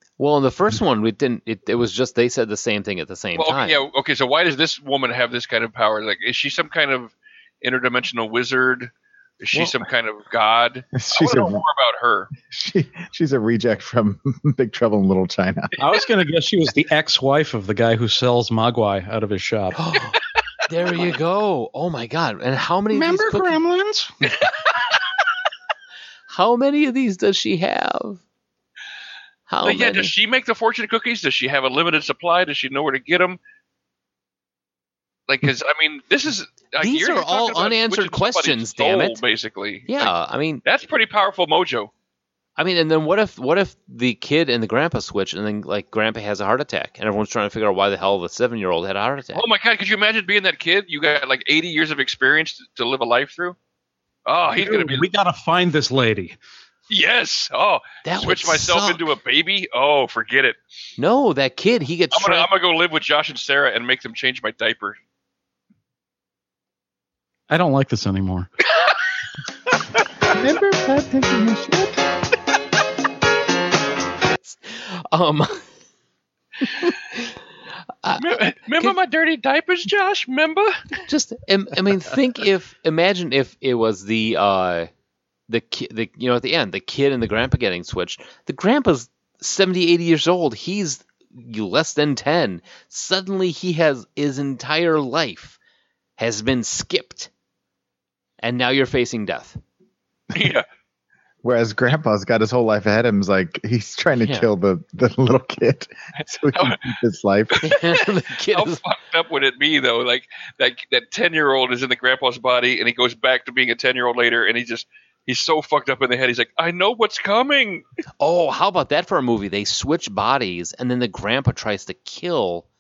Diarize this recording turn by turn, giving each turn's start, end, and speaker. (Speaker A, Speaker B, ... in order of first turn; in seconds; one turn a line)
Speaker A: 0.2-3.8
Speaker B: 3.4-12.3
Speaker C: 11.0-11.6
Speaker C: 12.5-15.8
Speaker D: 15.8-19.8
Speaker A: 19.8-23.6
Speaker B: 20.8-21.2
Speaker D: 22.9-24.1
Speaker A: 26.3-28.2
Speaker A: 29.5-30.1
Speaker B: 29.6-33.4
Speaker B: 35.3-40.1
Speaker A: 36.8-39.2
Speaker A: 39.9-40.6
Speaker B: 40.6-41.9
Speaker A: 42.6-49.4
Speaker B: 49.3-53.6
Speaker B: 54.3-55.1
Speaker D: 54.5-56.4
Speaker B: 56.9-60.6
Speaker A: 58.0-59.1
Speaker A: 61.0-62.5
Speaker B: 62.1-65.0
Speaker D: 67.5-68.5
Speaker C: 70.3-72.0
Speaker A: 74.3-75.6
Speaker A: 76.6-77.3
Speaker A: 78.0-79.0
Speaker B: 78.2-80.8
Speaker A: 81.1-84.9
Speaker A: 85.5-95.6
Speaker A: 96.2-97.3
Speaker A: 98.4-99.6
Speaker B: 100.3-100.7
Speaker C: 101.4-107.6
Speaker A: 104.2-104.5
Speaker B: 106.5-106.8
Speaker B: 107.6-108.0
Speaker A: 107.6-108.8
Speaker B: 108.5-117.8
Speaker A: 118.2-122.7